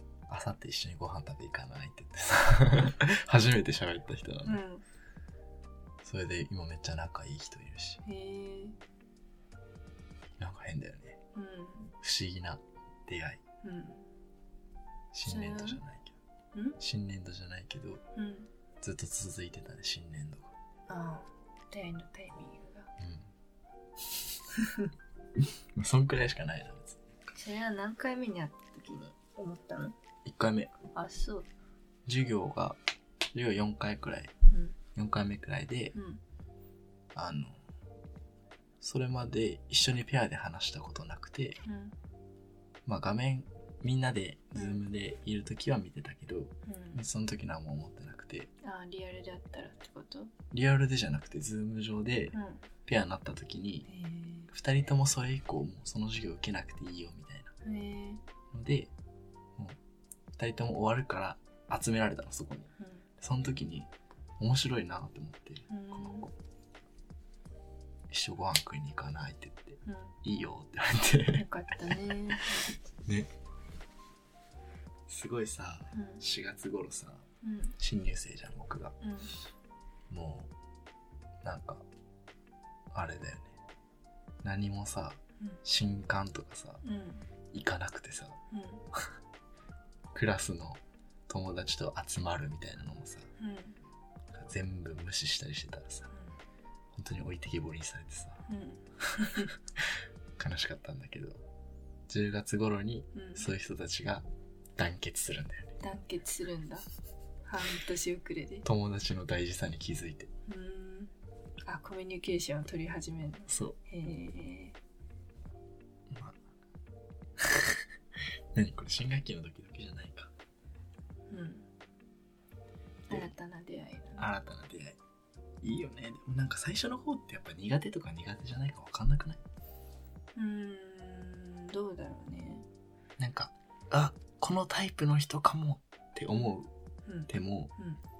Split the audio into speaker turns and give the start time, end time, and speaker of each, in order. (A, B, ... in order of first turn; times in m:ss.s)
0:00.3-0:04.6 A
0:04.4-0:04.8 B
0:06.0-0:08.0 A
0:08.0-0:08.8 B
0:10.4-0:11.2 A
0:11.4-0:11.9 B
0:12.0-0:13.4 A
0:13.6-0:14.1 B
0:15.1-0:16.2 A
0:15.2-0:15.8 B
0:16.5-0:16.8 B
0:16.8-0:18.0 A
0:18.2-0:18.5 B
0:18.8-0:20.5 A
0:20.9-0:22.9 B
0:23.0-0:23.3 A
0:24.6-0:24.9 B
0:25.4-0:27.1 A
0:27.3-0:30.0 B
0:30.2-0:30.7 A
0:30.9-0:31.5 B
0:32.1-0:32.8 A
0:33.3-0:34.3 A
0:34.5-0:34.8 B
0:35.0-0:36.0 A
0:35.9-0:36.2 B
0:37.1-0:37.6 A
0:38.8-0:41.6 A
0:41.6-0:41.9 B
0:42.9-0:48.5 A
0:44.6-0:44.8 B
0:46.7-0:47.0 B
0:48.6-0:50.3 B
0:50.5-0:53.9 A
0:52.3-0:52.6 B
0:53.9-0:54.5 B
0:54.5-0:57.5 A
0:57.6-0:58.2 B
0:58.5-0:58.9 A
1:00.4-1:06.3 A
1:02.8-1:03.1 B
1:05.7-1:06.3 B
1:08.1-1:13.3 A
1:09.8-1:10.2 B
1:11.3-1:12.8 B
1:15.1-1:17.2 A
1:15.9-1:16.2 B
1:17.4-1:17.8 B
1:17.8-1:19.0 A
1:19.0-1:19.3 B
1:20.1-1:20.5 A
1:21.4-1:21.8 A
1:22.9-1:23.6 A
1:24.4-1:26.8 A
1:26.8-1:27.2 B
1:27.5-1:28.4 A
1:28.5-1:28.8 B
1:30.1-1:33.3 A
1:33.4-1:33.8 B
1:34.3-1:36.1 A
1:36.9-1:38.4 A
1:38.5-1:39.5 B
1:39.8-1:41.4 A
1:42.1-1:44.2 A
1:43.1-1:43.5 B
1:44.8-1:45.8 A
1:45.8-1:46.9 B
1:47.5-1:48.7 B
1:48.6-1:50.3 A
1:50.5-1:51.1 B
1:51.7-1:54.8 B
1:53.5-1:53.8 A
1:56.1-1:56.4 A
1:57.4-2:00.3 A
2:01.3-2:01.7 B
2:03.1-2:04.3 B
2:04.2-2:05.0 A
2:05.6-2:09.4 A
2:10.4-2:12.6 B
2:13.2-2:16.7 A
2:17.1-2:18.0 B
2:17.3-2:17.7 A